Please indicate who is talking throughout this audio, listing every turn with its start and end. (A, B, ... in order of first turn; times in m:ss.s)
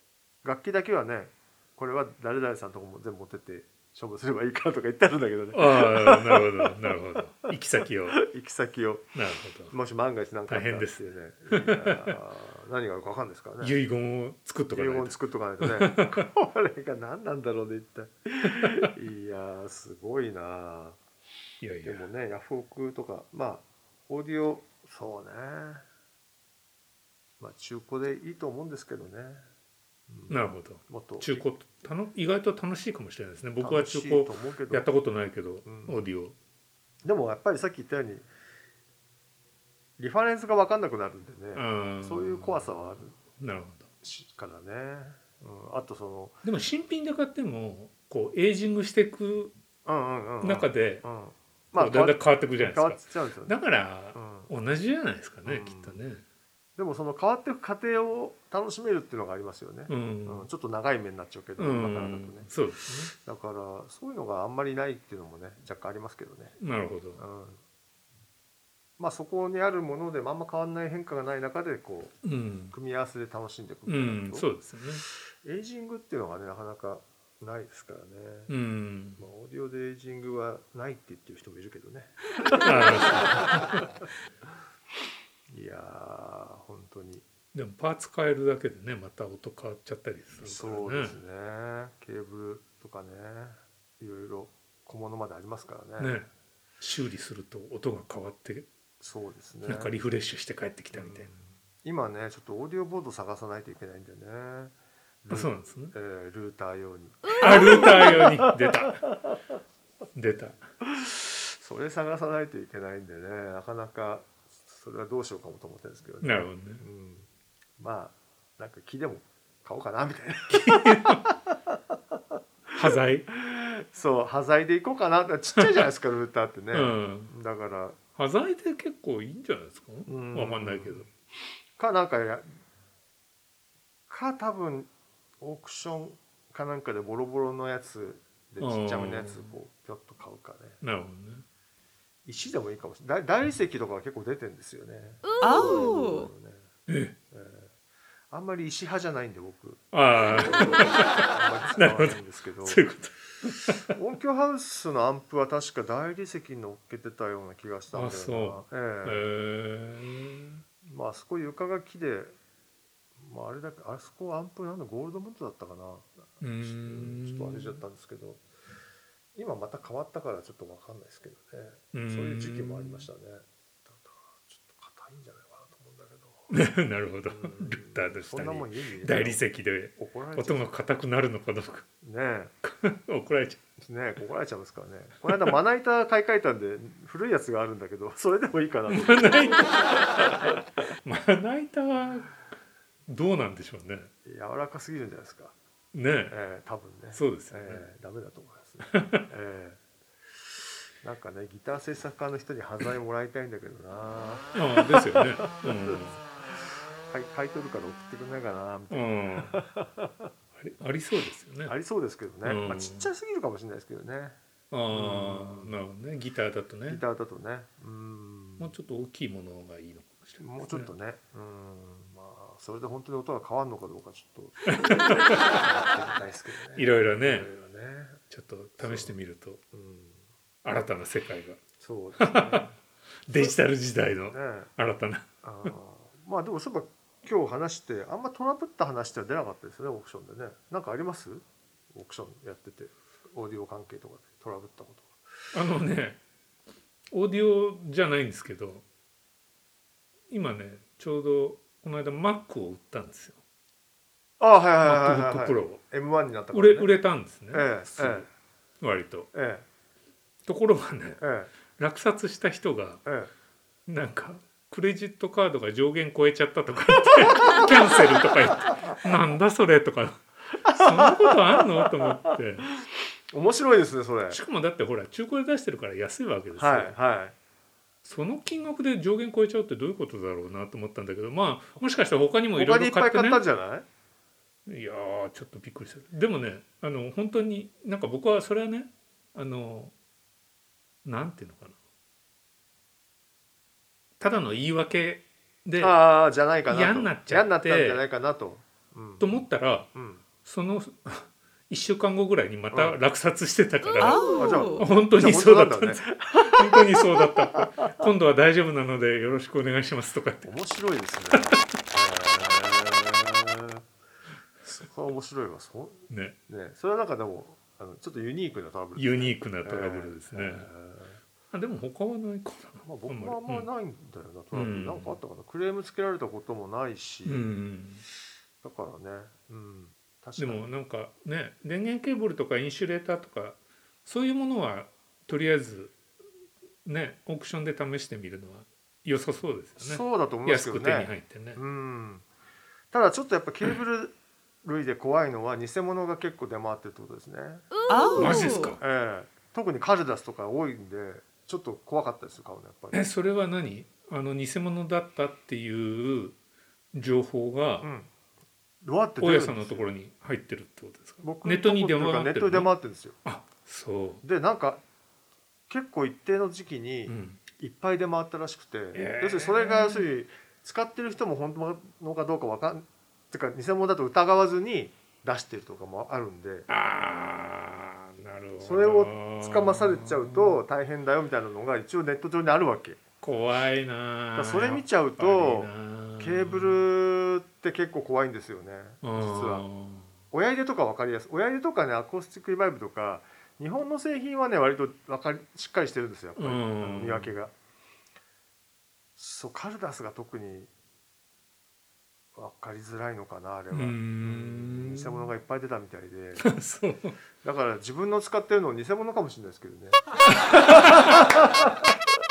0:00.4-0:07.5 A
0:05.5-0:08.2 B
0:08.1-0:09.1 A
0:09.1-0:09.7 B
0:09.7-0:13.8 A
0:10.5-0:12.2 B
0:13.6-0:16.3 B
0:14.7-0:21.0 A
0:18.4-0:18.9 B
0:21.6-0:22.0 B
0:21.8-0:25.8 A
0:27.4-0:29.4 A
0:30.1-0:31.4 A
0:30.3-0:36.3 B
0:33.6-0:34.9 A
0:35.6-0:36.0 A
0:37.0-0:38.2 A
0:40.0-0:43.2 A
0:41.5-0:42.7 B
0:43.4-0:43.9 B
0:44.0-0:46.4 A
0:46.4-0:49.5 B
0:49.8-0:53.6 A
0:50.4-0:51.0 B
0:51.7-0:56.2 B
0:54.1-0:54.5 A
0:55.4-0:56.0 A
0:56.8-1:06.5 A
0:59.9-1:00.5 B
1:01.6-1:03.1 B
1:06.6-1:07.2 B
1:07.2-1:07.6 A
1:09.0-1:12.1 A
1:12.2-1:12.7 B
1:12.7-1:14.4 A
1:13.9-1:15.0 B
1:15.1-1:18.5 A
1:18.5-1:19.2 B
1:19.2-1:23.9 A
1:22.5-1:23.9 B
1:25.5-1:27.2 A
1:27.5-1:31.2 B
1:30.4-1:36.1 A
1:36.0-1:36.3 B
1:36.8-1:38.7 B
1:39.0-1:39.9 A
1:39.6-1:41.3 B
1:40.9-1:49.4 A
1:45.3-1:45.9 B
1:47.4-1:49.0 B
1:50.1-1:50.6 B
1:50.9-1:57.3 A
1:56.2-1:56.8 B
1:57.8-2:02.7 A
2:00.5-2:01.2 B
2:02.7-2:03.3 B
2:03.3-2:08.0 A
2:06.7-2:07.3 B
2:08.2-2:11.1 B
2:10.0-2:11.0 A
2:11.8-2:12.5 A
2:14.1-2:14.9 A
2:15.4-2:20.8 A
2:18.6-2:19.5 B
2:20.8-2:21.4 B
2:22.2-2:26.7 A
2:26.9-2:27.1 B
2:27.3-2:27.7 A
2:28.3-2:32.8 A
2:29.9-2:33.9 B
2:33.8-2:39.2 A
2:37.9-2:40.6 B
2:40.8-2:42.3 A
2:43.2-2:48.4 A
2:46.4-2:47.8 B
2:49.3-2:56.5 A
2:51.9-2:53.1 B
2:56.5-3:01.8 B
2:57.3-2:59.4 A
2:59.9-3:00.7 A
3:02.0-3:02.5 A
3:02.6-3:03.6 B
3:03.8-3:10.6 A
3:08.9-3:12.3 B
3:13.1-3:14.1 B
3:14.2-3:15.6 A
3:15.9-3:16.3 B
3:16.3-3:19.8 A
3:17.1-3:17.8 B
3:18.8-3:19.2 B
3:21.0-3:30.3 A
3:24.5-3:26.2 B
3:28.9-3:29.6 B
3:30.6-3:31.7 B
3:31.6-3:34.4 A
3:32.4-3:33.1 B
3:34.7-3:37.0 B
3:34.9-3:35.8 A
3:36.9-3:38.7 A
3:38.6-3:40.9 B
3:40.4-3:48.2 A
3:44.7-3:45.6 B
3:46.7-3:47.5 B
3:48.3-3:49.6 B
3:48.8-3:49.1 A
3:49.7-3:50.2 A
3:50.6-3:51.6 B
3:51.8-3:52.8 A
3:52.2-3:52.7 B
3:53.2-3:55.7 B
3:54.3-3:54.7 A
3:55.4-4:05.2 A
4:05.5-4:06.2 B
4:07.1-4:08.8 B
4:10.3-4:13.4 B
4:14.4-4:16.9 A
4:14.8-4:15.8 B
4:16.5-4:18.3 B
4:17.5-4:18.3 A
4:18.8-4:19.3 B
4:19.3-4:19.6 A
4:20.4-4:21.2 B
4:21.2-4:21.5 A
4:21.7-4:23.0 B
4:23.0-4:23.3 A
4:23.8-4:32.7 B
4:30.6-4:34.4 A
4:34.3-4:36.9 B
4:36.6-4:37.3 A
4:38.0-4:43.4 B
4:42.6-4:43.8 A
4:44.6-4:49.9 B
4:51.0-4:51.8 B
4:54.2-4:56.0 B
4:55.8-4:59.4 A
4:56.7-4:58.0 B
4:59.2-4:59.9 B
4:59.9-5:00.2 A
5:00.4-5:10.5 B
5:02.7-5:03.0 A
5:04.3-5:08.1 A
5:10.4-5:13.8 A
5:11.3-5:11.6 B
5:14.6-5:21.2 A
5:16.1-5:16.4 B
5:19.0-5:20.7 B
5:21.5-5:23.7 B
5:22.8-5:27.4 A
5:24.5-5:25.2 B
5:27.2-5:28.0 B
5:28.6-5:30.6 A
5:30.4-5:36.0 B
5:36.8-5:41.6 B
5:39.8-5:42.2 A
5:42.9-5:53.0 A
5:48.1-5:48.8 B
5:52.9-5:56.4 B
5:56.9-5:57.9 B
5:57.8-5:58.1 A
5:58.8-5:59.8 A
5:59.2-6:02.7 B
6:01.2-6:03.2 A
6:03.2-6:04.2 B
6:04.2-6:04.8 A
6:05.7-6:16.7 A
6:07.1-6:07.4 B
6:08.9-6:10.1 B
6:16.7-6:20.6 B
6:18.6-6:23.0 A
6:23.2-6:26.8 B
6:24.3-6:29.6 A
6:29.0-6:30.1 B
6:30.3-6:37.5 A
6:36.4-6:37.3 B
6:39.2-6:40.7 A
6:42.4-6:46.4 A
6:43.7-6:45.3 B
6:46.4-6:47.2 B
6:47.4-6:51.9 A
6:50.4-6:51.3 B